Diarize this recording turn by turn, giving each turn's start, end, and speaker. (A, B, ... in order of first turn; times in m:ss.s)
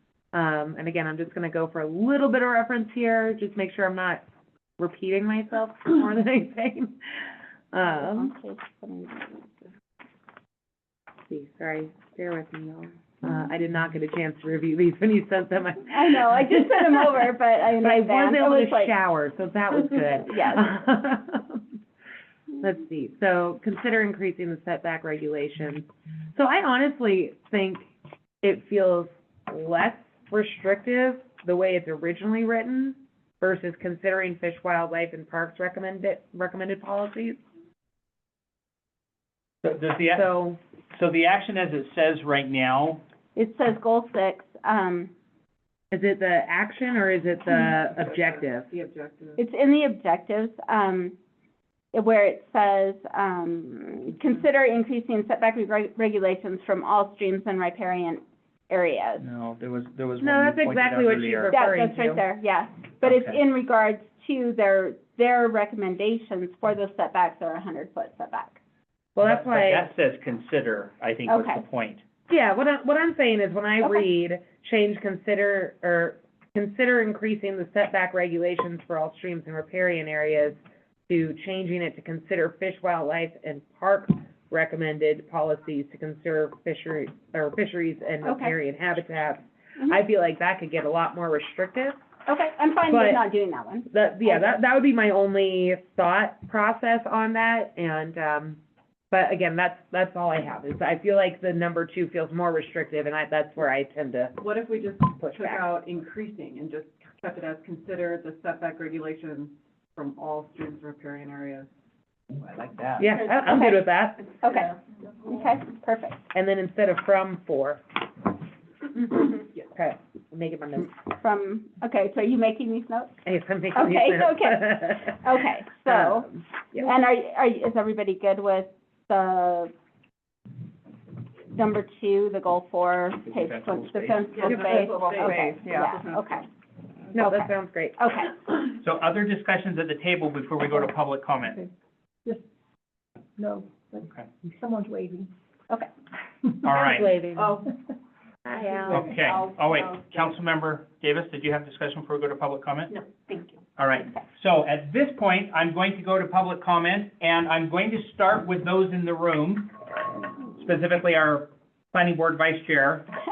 0:00.3-0:04.2 A
0:04.8-0:08.3 A
0:07.8-0:09.7 B
0:11.3-0:21.7 A
0:15.9-0:19.0 B
0:20.3-0:20.7 B
0:22.6-0:27.8 A
0:28.4-0:37.4 A
0:39.6-0:40.3 C
0:40.1-0:40.6 A
0:40.9-0:43.0 C
0:43.4-0:45.1 B
0:45.9-0:48.7 A
0:47.7-0:49.4 D
0:49.4-0:51.2 B
0:51.9-0:59.3 B
0:59.2-1:01.5 C
1:00.2-1:02.2 A
1:01.5-1:08.6 B
1:03.0-1:03.4 C
1:09.2-1:09.9 A
1:09.2-1:12.0 C
1:11.3-1:11.6 B
1:12.3-1:32.0 A
1:13.8-1:14.1 B
1:28.2-1:28.5 B
1:32.3-1:34.6 B
1:32.9-1:33.2 A
1:33.9-1:38.6 A
1:39.1-1:44.5 A
1:44.4-1:51.7 D
1:45.1-1:45.7 A
1:52.4-1:53.1 D
1:53.0-1:54.4 A
1:53.5-1:53.8 B
1:54.4-1:54.7 B
1:55.3-1:56.2 B
1:56.3-1:57.8 A
1:59.0-2:00.9 A
2:01.1-2:03.1 B
2:03.2-2:05.3 A
2:03.7-2:09.7 B
2:05.8-2:06.9 A
2:11.5-2:16.5 B
2:13.2-2:14.3 C
2:14.3-2:16.4 D
2:14.4-2:15.4 A
2:17.1-2:18.0 A
2:17.2-2:18.4 B
2:18.8-2:21.6 C
2:21.4-2:21.7 E
2:23.4-2:25.3 E
2:26.6-2:27.1 C
2:26.6-2:27.6 A
2:27.4-2:27.7 D
2:28.4-2:29.1 A
2:28.7-2:30.4 D
2:28.9-2:32.9 C
2:32.9-2:34.2 B
2:33.8-2:39.7 C
2:40.6-2:43.1 C